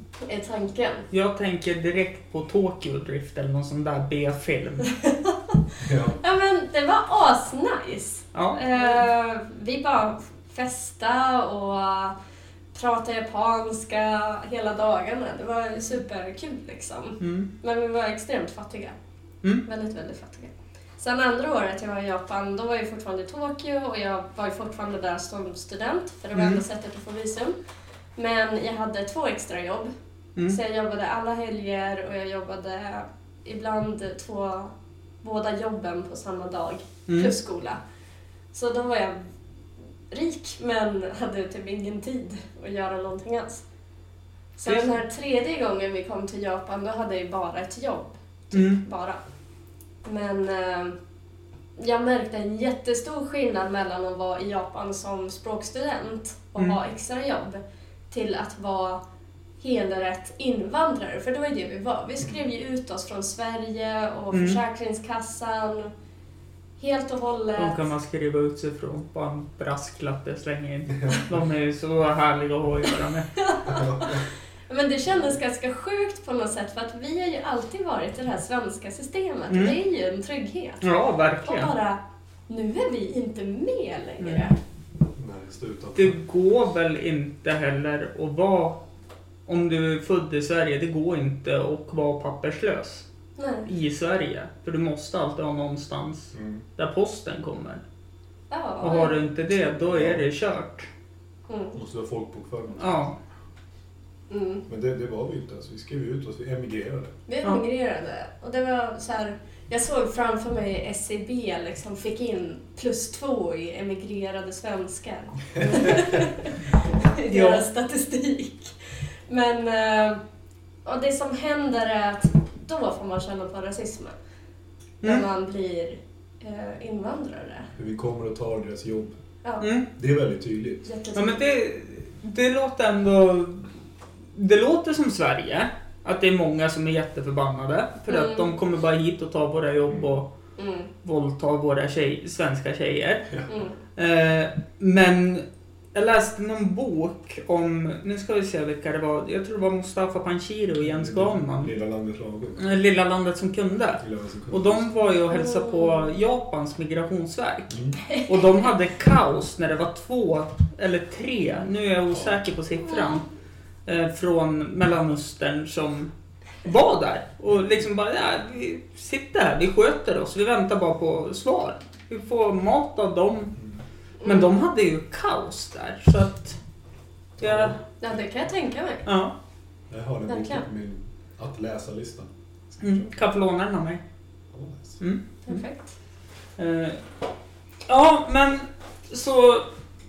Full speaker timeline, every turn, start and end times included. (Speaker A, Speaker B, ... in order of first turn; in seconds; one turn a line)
Speaker A: 0.2-1.1
Speaker B: 1.1-4.9
Speaker A: 4.8-5.6
Speaker C: 5.8-6.2
Speaker A: 6.2-12.2
Speaker B: 8.3-8.6
Speaker A: 12.7-19.0
Speaker B: 17.2-17.5
Speaker A: 19.6-27.6
Speaker B: 26.4-26.6
Speaker A: 28.2-29.9
Speaker A: 30.5-37.8
Speaker A: 38.5-39.3
Speaker A: 40.1-43.6
Speaker A: 44.6-49.2
Speaker B: 44.7-44.9
Speaker B: 48.5-48.8
Speaker A: 50.0-51.0
Speaker A: 51.8-59.0
Speaker A: 59.6-65.9
Speaker B: 64.3-64.6
Speaker A: 66.8-67.8
Speaker B: 67.6-73.3
Speaker A: 73.3-80.8
Speaker C: 73.7-74.2
Speaker B: 79.5-79.8
Speaker B: 80.8-81.7
Speaker A: 81.4-84.5
Speaker B: 84.2-84.5
Speaker C: 85.1-86.2
Speaker B: 86.0-88.8
Speaker B: 89.5-93.1
Speaker A: 93.4-93.7
Speaker B: 93.7-97.8
Speaker C: 96.3-96.6
Speaker A: 98.5-99.2
Speaker B: 98.8-100.9
Speaker C: 99.6-100.2
Speaker A: 101.5-101.8
Speaker C: 101.8-103.1
Speaker B: 102.8-103.2
Speaker A: 104.3-104.7
Speaker C: 104.7-107.1
Speaker A: 107.3-118.8
Speaker B: 117.3-117.6
Speaker A: 119.3-120.2
Speaker A: 120.8-124.2
Speaker A: 125.0-127.7
Speaker C: 127.8-129.2
Speaker B: 129.6-129.9
Speaker C: 130.0-130.9
Speaker A: 130.8-131.4
Speaker B: 131.2-133.7
Speaker B: 134.3-140.3
Speaker A: 138.1-138.5
Speaker C: 139.9-140.1
Speaker A: 140.6-140.9
Speaker B: 141.0-143.3
Speaker A: 143.5-143.8
Speaker B: 144.0-151.7
Speaker C: 150.8-152.8
Speaker B: 152.6-163.3
Speaker C: 154.0-154.9
Speaker A: 155.3-156.1
Speaker C: 157.7-158.0
Speaker A: 158.1-158.7
Speaker C: 162.1-162.4
Speaker A: 162.9-163.2
Speaker B: 163.9-166.1
Speaker B: 166.6-173.6
Speaker A: 174.2-174.6
Speaker B: 174.2-176.6
Speaker C: 177.4-177.8
Speaker B: 177.4-177.8
Speaker A: 178.0-179.1
Speaker B: 179.1-179.3
Speaker C: 179.9-183.1
Speaker A: 180.3-180.7
Speaker B: 182.8-184.0
Speaker C: 184.5-185.0
Speaker B: 185.0-185.6
Speaker A: 185.4-185.9
Speaker B: 186.6-187.0
Speaker B: 187.9-189.7